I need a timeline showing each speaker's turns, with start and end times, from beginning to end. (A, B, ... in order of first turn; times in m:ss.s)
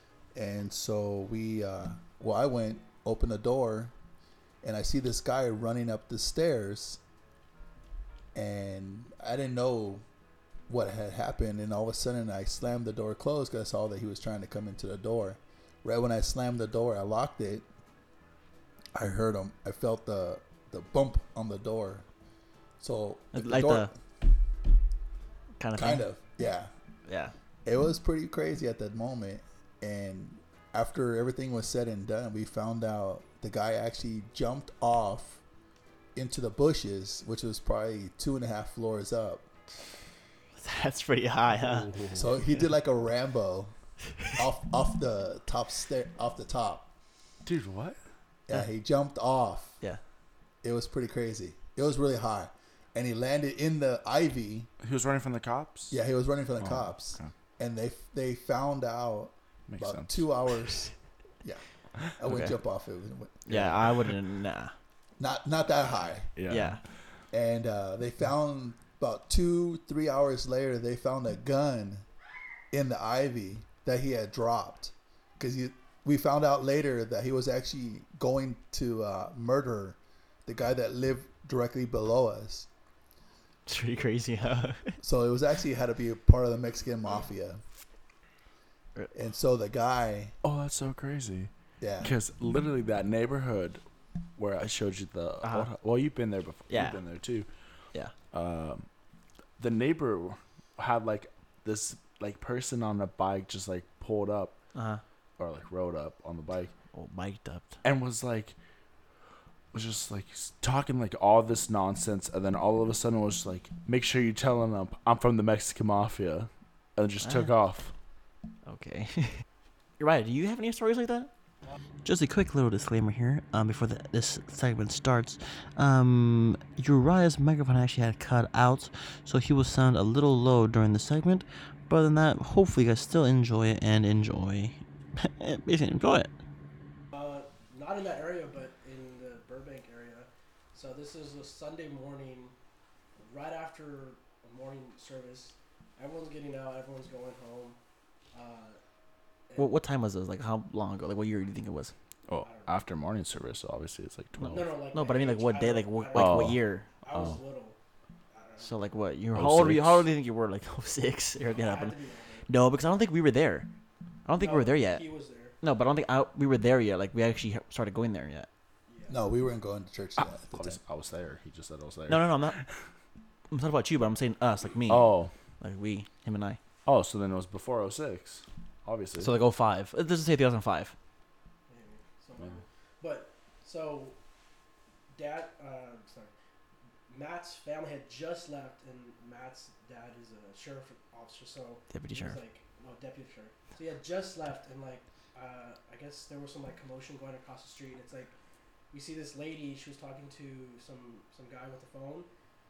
0:00.4-0:03.9 A
0:04.6-0:07.0 A
0:08.4-0:10.0 A
0:10.7-0:17.7 A
0:19.0-0:22.1 A
0:22.8-0:24.0 A
0:23.3-0:23.9 B
0:25.6-0:26.0 B
0:25.8-0:26.7 A
0:27.1-0:27.3 B
0:27.6-0:35.4 A
0:36.2-0:39.5 A
0:40.6-0:41.9 B
0:41.6-0:42.2 C
0:42.1-0:43.7 A
0:44.3-0:46.9 A
0:47.4-0:48.0 C
0:48.5-0:49.8 A
0:50.6-0:54.7 A
0:54.8-0:56.0 C
0:55.9-1:01.6 A
0:56.6-0:57.3 C
0:59.7-1:00.3 C
1:02.2-1:03.4 A
1:02.3-1:02.6 B
1:03.5-1:04.7 B
1:03.5-1:03.9 C
1:05.2-1:06.3 A
1:06.4-1:06.8 C
1:06.5-1:06.8 B
1:07.3-1:12.1 A
1:12.7-1:22.7 A
1:23.7-1:25.0 B
1:25.0-1:27.6 A
1:29.1-1:30.4 A
1:30.4-1:31.5 C
1:31.8-1:32.2 A
1:32.0-1:33.8 C
1:34.4-1:37.5 C
1:36.7-1:37.0 B
1:38.3-1:38.9 C
1:39.6-1:44.6 C
1:44.7-1:45.0 B
1:45.4-1:46.7 C
1:46.9-1:47.8 B
1:47.8-1:48.6 C
1:49.7-1:57.9 C
1:57.2-1:57.5 B
1:58.7-1:59.4 B
2:00.0-2:01.3 B
2:02.0-2:16.3 B
2:17.1-2:22.6 D
2:23.2-2:27.8 D
2:28.3-2:28.8 D
2:29.5-2:29.8 D
2:29.6-2:31.9 B
2:32.3-2:34.7 C
2:32.4-2:32.8 D
2:34.4-2:36.9 B
2:34.5-2:37.8 D
2:36.1-2:37.4 C
2:38.3-2:38.8 D
2:38.6-2:43.7 B
2:39.4-2:40.1 C
2:41.5-2:42.5 D
2:44.2-2:45.0 B
2:44.4-2:45.6 D
2:45.6-2:48.5 B
2:48.9-2:49.2 D
2:49.1-2:50.8 A
2:50.5-2:52.7 C
2:52.1-2:52.6 B
2:53.5-2:56.6 B
2:54.9-2:55.3 C
2:56.9-2:59.3 C
2:59.2-3:01.0 B
3:01.7-3:04.2 D
3:05.1-3:06.3 D
3:07.1-3:18.3 D
3:11.9-3:12.4 B
3:18.9-3:22.3 D